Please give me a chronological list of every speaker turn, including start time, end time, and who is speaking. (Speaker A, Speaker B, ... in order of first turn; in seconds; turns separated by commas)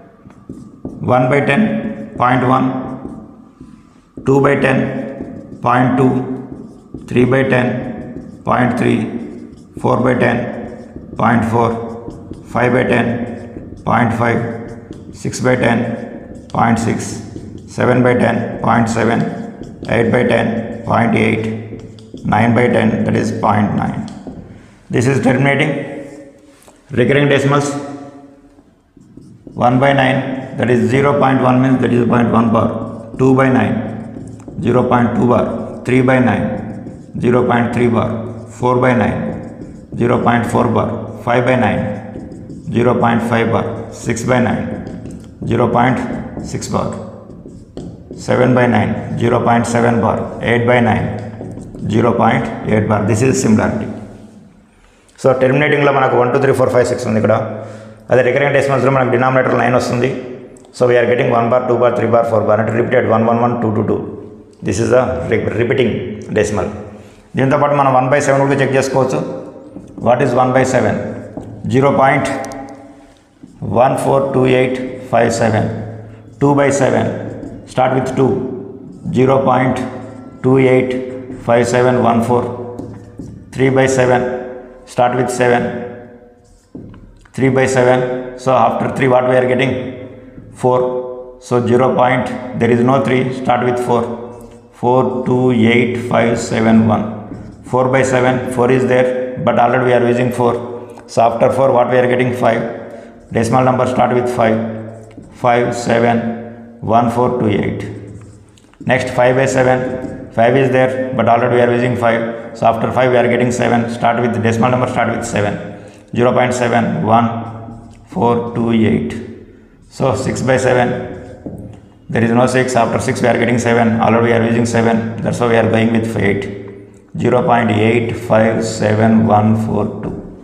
Speaker A: 1.0-2.9, Speaker A: 4.2-6.3, Speaker A: 7.0-9.2, Speaker A: 9.8-10.6, Speaker A: 11.2-11.8, Speaker A: 12.4-14.5, Speaker A: 15.1-21.6, Speaker A: 22.2-24.1, Speaker A: 24.9-25.9, Speaker A: 26.9-27.8, Speaker A: 29.6-33.9, Speaker A: 34.6-36.6, Speaker A: 37.1-39.3, Speaker A: 39.9-42.0, Speaker A: 42.7-44.8, Speaker A: 45.4-47.0, Speaker A: 48.1-51.2, Speaker A: 51.8-53.9, Speaker A: 55.2-57.4, Speaker A: 58.1-60.2, Speaker A: 60.7-64.1, Speaker A: 64.6-66.7, Speaker A: 67.3-69.2, Speaker A: 70.0-71.0, Speaker A: 71.6-72.3, Speaker A: 73.6-75.8, Speaker A: 76.4-79.8, Speaker A: 80.4-82.6, Speaker A: 83.5-85.8, Speaker A: 87.3-89.9, Speaker A: 90.5-94.2, Speaker A: 94.7-102.7, Speaker A: 103.3-104.8, Speaker A: 105.3-107.9, Speaker A: 108.8-117.5, Speaker A: 118.1-119.2, Speaker A: 119.9-121.1, Speaker A: 122.1-126.5, Speaker A: 127.1-130.2